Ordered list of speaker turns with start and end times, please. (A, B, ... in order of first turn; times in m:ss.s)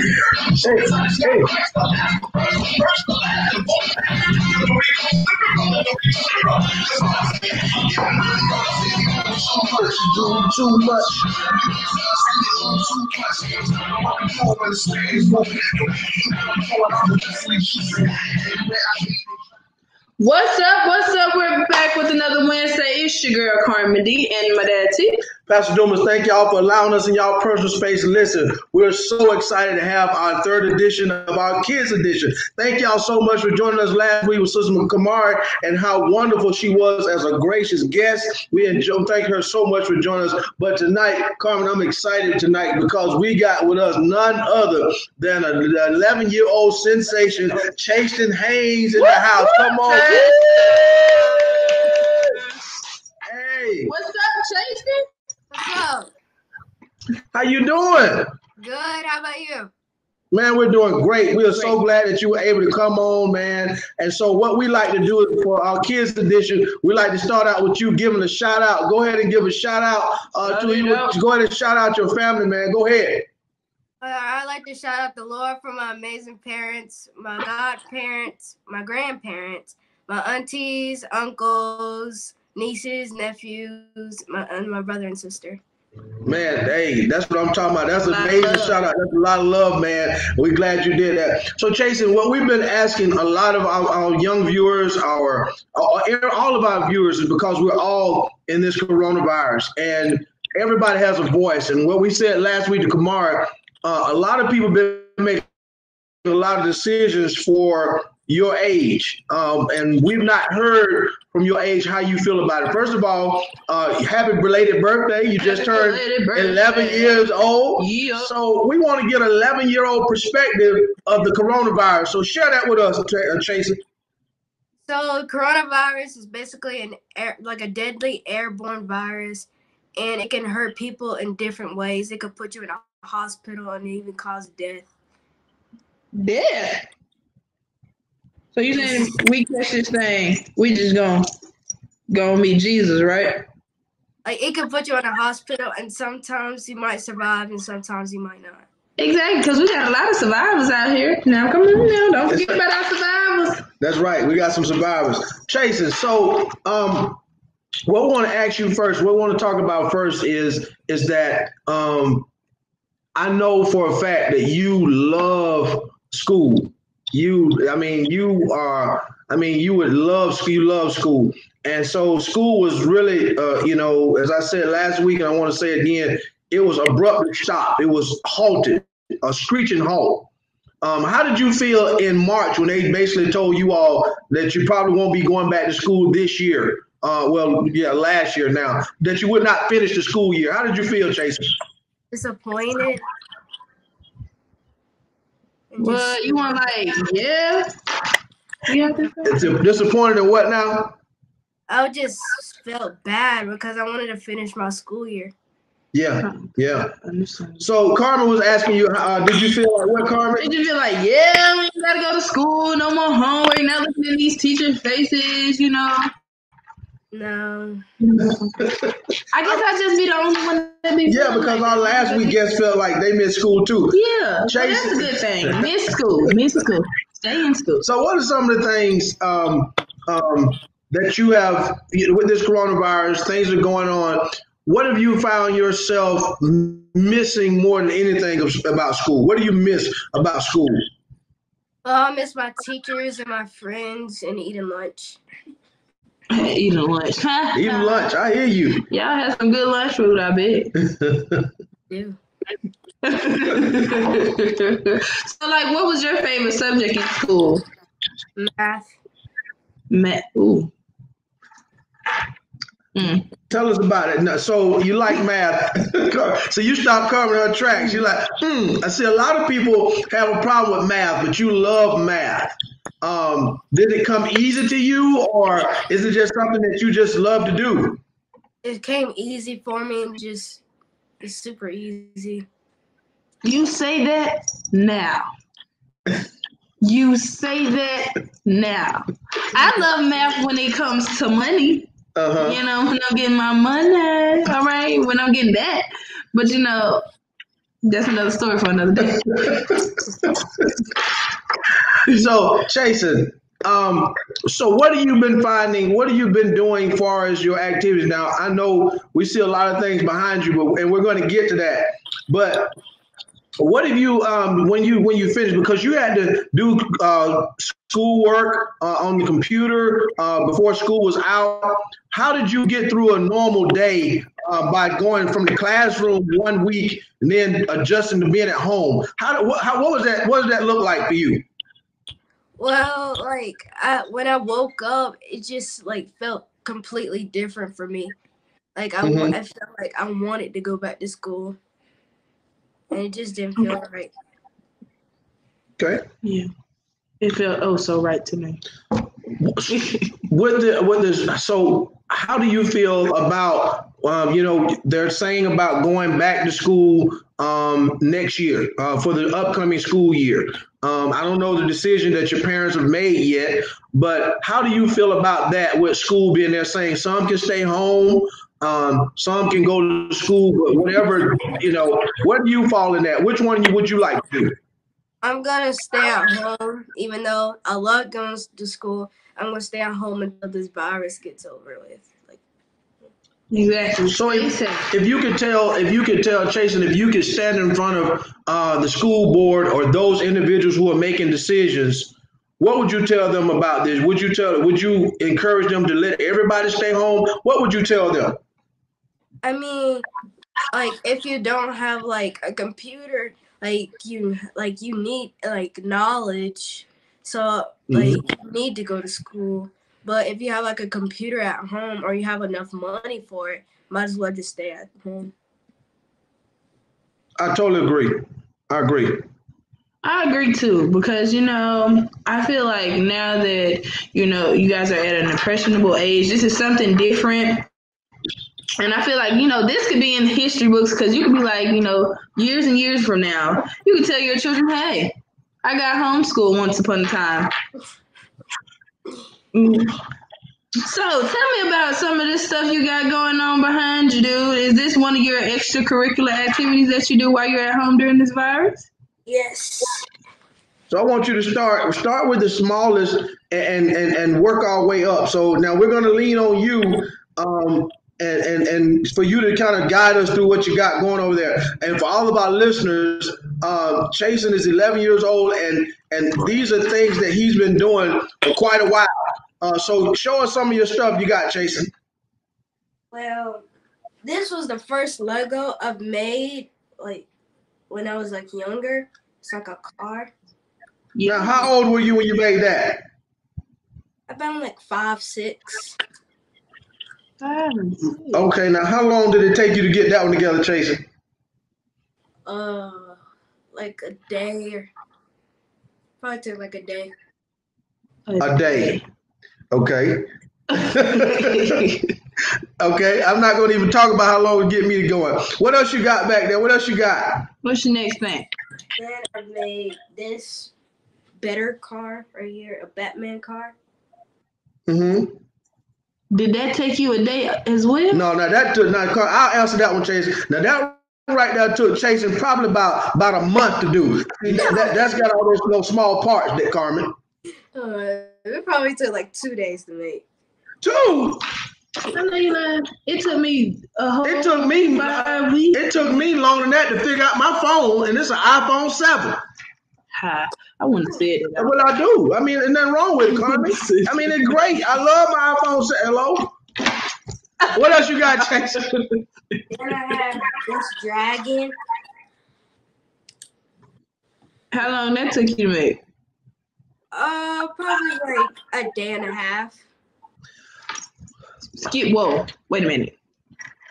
0:00.3-0:19.1 A
0:20.2-0:25.2 B
0:25.5-0:50.8 A
0:49.0-0:52.4 B
0:53.3-0:53.9 A
0:53.9-0:55.1 B
0:55.5-0:56.1 C
0:57.3-0:58.3 A
0:58.6-0:59.7 C
1:00.3-1:13.3 A
1:10.4-1:11.2 B
1:14.0-1:25.6 C
1:26.2-1:45.5 A
1:28.1-1:28.8 B
1:46.2-2:03.8 A
1:55.4-1:58.3 B
2:04.9-2:14.9 C
2:16.1-2:16.8 B
2:18.5-2:21.3 B
2:18.8-2:19.1 C
2:22.1-2:23.4 B
2:24.2-2:28.7 C
2:29.0-2:33.6 B
2:32.3-2:32.6 A
2:33.8-2:37.2 A
2:37.9-2:42.3 A
2:43.1-3:00.3 A
3:00.8-3:11.6 A
3:12.1-3:13.0 C
3:15.7-3:16.8 C
3:15.8-3:17.7 B
3:18.7-3:19.6 B
3:19.2-3:20.9 A
3:21.7-3:25.3 C
3:25.9-3:26.9 A
3:26.2-3:27.6 B
3:27.6-3:30.5 A
3:30.4-3:36.1 B
3:37.1-3:37.8 C
3:38.0-3:38.5 B
3:38.3-3:39.6 A
3:39.3-3:42.4 B
3:41.0-3:45.7 A
3:43.9-3:47.8 B
3:47.8-4:00.9 A
4:01.8-4:05.2 C
4:06.3-4:08.0 B
4:07.5-4:08.8 A
4:08.9-4:10.7 B
4:10.8-4:11.5 A
4:11.9-4:12.2 C
4:13.0-4:17.6 B
4:18.4-4:18.9 C
4:19.9-4:20.7 B
4:22.9-4:23.2 B
4:23.5-4:38.0 A
4:38.6-4:40.6 C
4:41.2-4:42.4 C
4:43.4-4:45.3 B
4:46.8-4:57.0 B
4:52.1-4:52.6 A
4:57.8-4:59.6 B
4:59.4-5:00.6 A
5:02.1-5:12.7 A
5:13.6-5:31.4 A
5:32.6-5:38.1 C
5:38.8-5:41.6 C
5:39.0-5:39.4 A
5:42.9-5:44.1 C
5:45.8-5:46.0 A
5:46.2-5:46.5 B
5:47.2-5:48.6 B
5:49.4-6:14.6 A
5:49.7-5:50.1 B
6:15.2-6:22.4 C
6:23.5-6:24.9 B
6:24.1-6:38.4 A
6:39.4-6:40.0 C
6:40.7-6:55.3 C
6:47.9-6:48.2 A
6:57.4-6:59.2 A
7:00.0-7:07.6 B
7:08.8-7:17.5 B
7:19.5-7:20.0 B
7:20.8-7:28.9 B
7:29.2-7:30.0 C
7:30.9-7:51.9 A
7:53.1-7:53.6 C
7:54.2-7:57.3 C
7:57.9-8:00.3 C
8:01.1-8:01.7 B
8:01.2-8:03.0 A
8:04.3-8:06.0 C
8:07.4-8:08.5 B
8:08.3-8:11.0 A
8:12.4-8:13.2 C
8:13.7-8:14.9 C
8:16.2-8:17.1 C
8:18.3-8:19.0 B
8:18.4-8:19.0 A
8:19.7-8:22.0 A
8:20.7-8:22.1 B
8:22.8-8:27.5 A
8:27.6-8:28.5 B
8:29.0-8:30.7 C
8:31.4-8:33.7 C
8:34.9-8:35.4 A
8:36.3-8:38.2 B
8:38.1-8:47.1 A
8:44.5-8:45.1 C
8:47.7-8:50.2 C
8:50.8-8:51.4 A
8:52.1-8:56.2 B
8:54.2-8:59.4 A
9:00.1-9:01.8 B
9:01.6-9:06.5 A
9:03.3-9:04.6 B
9:07.7-9:08.9 A
9:09.7-9:11.8 C
9:14.7-9:16.0 B
9:17.1-9:19.8 C
9:21.8-9:23.2 B